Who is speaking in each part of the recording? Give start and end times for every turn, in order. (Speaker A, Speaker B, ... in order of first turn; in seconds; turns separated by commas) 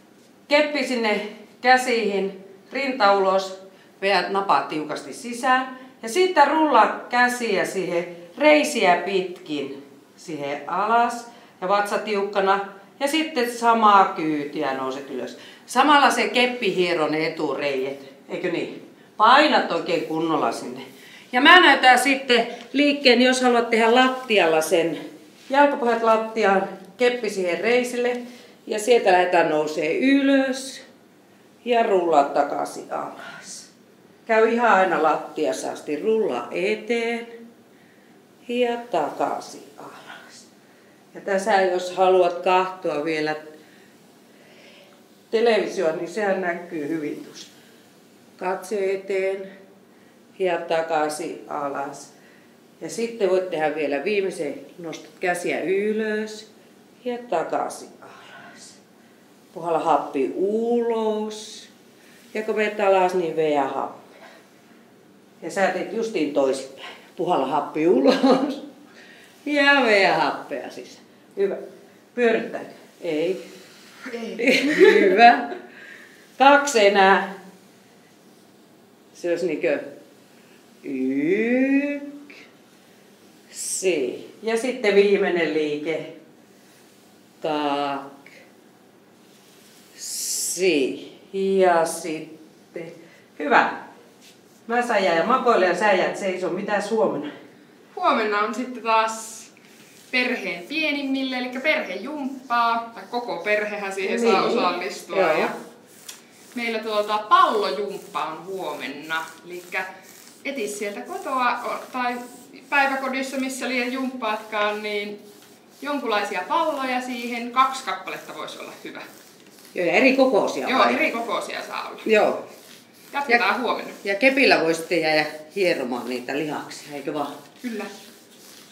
Speaker A: 0.5-25.0, Speaker A: 25.5-30.8, Speaker A: 31.6-33.7, Speaker A: 34.2-37.4, Speaker A: 38.5-40.5, Speaker A: 41.1-43.4, Speaker A: 45.3-47.5, Speaker A: 48.4-49.5, Speaker A: 50.4-52.1, Speaker A: 52.8-56.5, Speaker A: 57.0-58.8, Speaker A: 59.5-61.7, Speaker A: 62.3-64.1, Speaker A: 65.4-68.6, Speaker A: 69.4-71.6, Speaker A: 72.1-73.4, Speaker A: 74.2-75.5, Speaker A: 76.4-77.3, Speaker A: 79.1-79.8, Speaker A: 80.8-82.2, Speaker A: 83.5-86.1, Speaker A: 87.4-88.2, Speaker A: 89.9-93.8, Speaker A: 94.7-97.3, Speaker B: 97.9-99.5, Speaker B: 100.1-105.6, Speaker A: 104.0-105.5, Speaker B: 106.5-109.8, Speaker B: 110.4-115.2, Speaker B: 115.8-119.0, Speaker A: 119.7-121.0, Speaker B: 120.6-122.0, Speaker A: 122.0-122.4, Speaker B: 123.1-124.0, Speaker A: 124.0-127.3, Speaker B: 127.6-127.9